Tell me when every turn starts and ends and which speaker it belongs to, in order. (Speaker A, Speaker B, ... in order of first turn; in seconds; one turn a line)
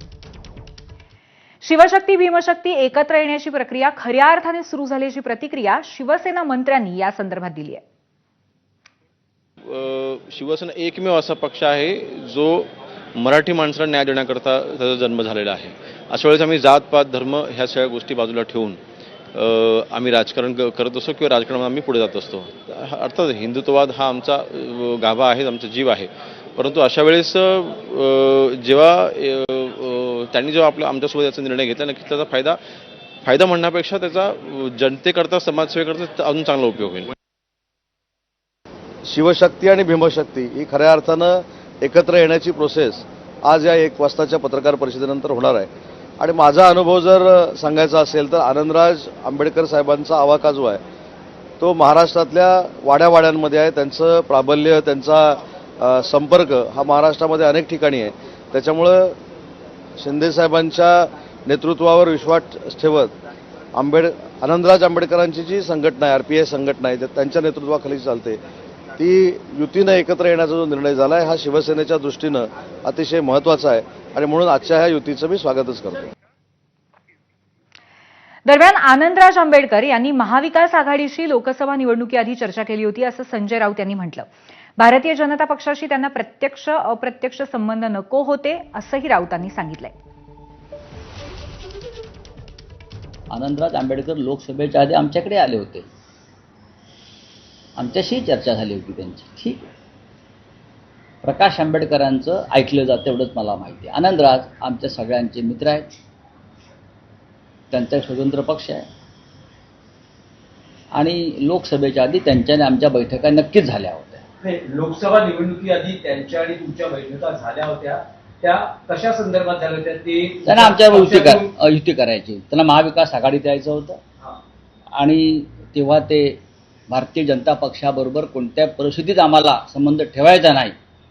Speaker A: 1.6-7.8
Speaker B: 9.6-18.8
Speaker B: 19.3-32.6
Speaker B: 33.2-37.1
Speaker C: 39.0-50.8
Speaker C: 51.6-59.2
Speaker C: 60.0-63.1
Speaker C: 63.7-68.4
Speaker C: 69.0-76.1
Speaker A: 78.5-84.3
Speaker A: 84.8-90.0
Speaker D: 93.3-95.9
Speaker D: 97.8-99.7
Speaker D: 101.2-105.9
Speaker D: 107.7-108.9
Speaker D: 110.9-114.2
Speaker E: 114.4-121.4
Speaker D: 120.5-124.0
Speaker D: 124.9-130.8